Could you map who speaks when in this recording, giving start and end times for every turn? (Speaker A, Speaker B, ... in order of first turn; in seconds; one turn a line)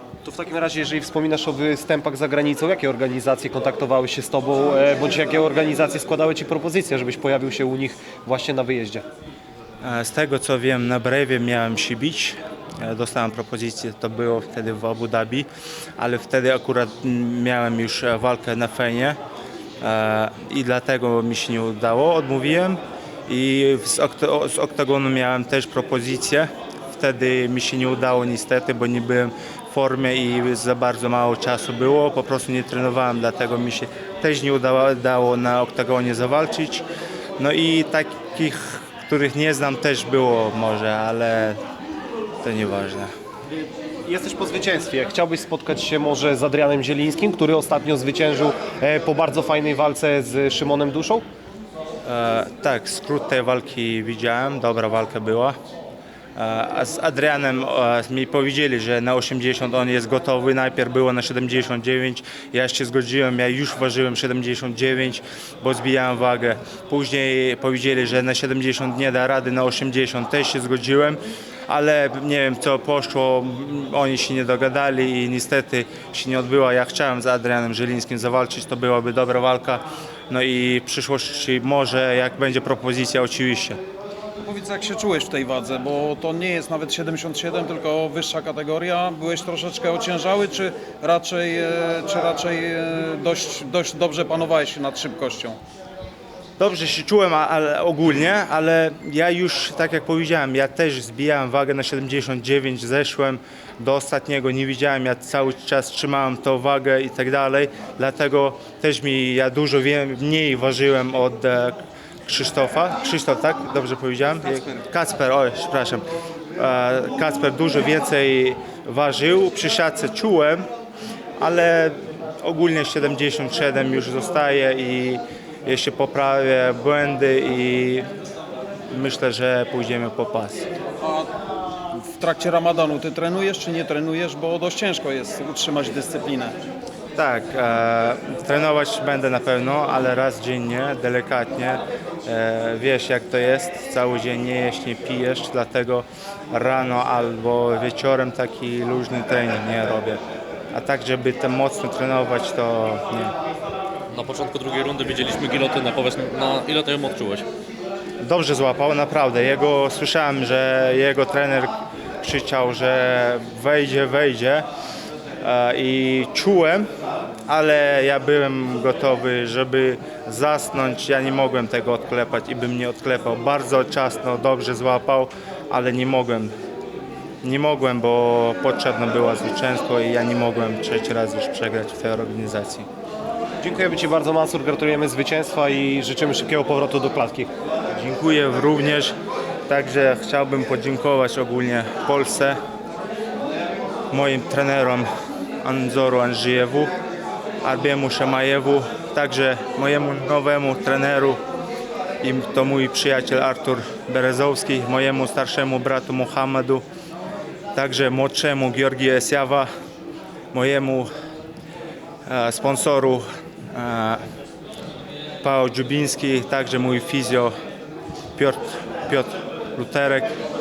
Speaker A: 0.2-9.1
Speaker B: 9.8-19.2
Speaker B: 19.8-36.9
Speaker B: 37.4-41.6
Speaker B: 42.4-43.1
Speaker A: 44.1-51.2
Speaker B: 52.0-55.6
Speaker B: 56.4-83.8
Speaker C: 84.4-95.6
Speaker B: 96.6-116.0
Speaker B: 116.6-120.7
Speaker B: 121.4-128.1
Speaker B: 128.9-130.7
Speaker C: 131.0-131.3
Speaker C: 131.9-136.6
Speaker B: 137.2-150.2
Speaker B: 150.7-153.3
Speaker D: 154.1-157.5
Speaker B: 158.2-164.7
Speaker B: 165.4-166.9
Speaker B: 167.5-176.5
Speaker B: 177.4-182.9
Speaker A: 183.6-187.5
Speaker B: 188.0-189.2
Speaker B: 189.7-192.6
Speaker B: 194.1-195.1
Speaker B: 195.6-196.9
Speaker B: 197.6-201.4
Speaker B: 202.2-206.8
Speaker B: 207.7-209.7
Speaker B: 210.5-211.1
Speaker B: 212.2-214.2
Speaker B: 215.4-217.6
Speaker B: 218.4-220.3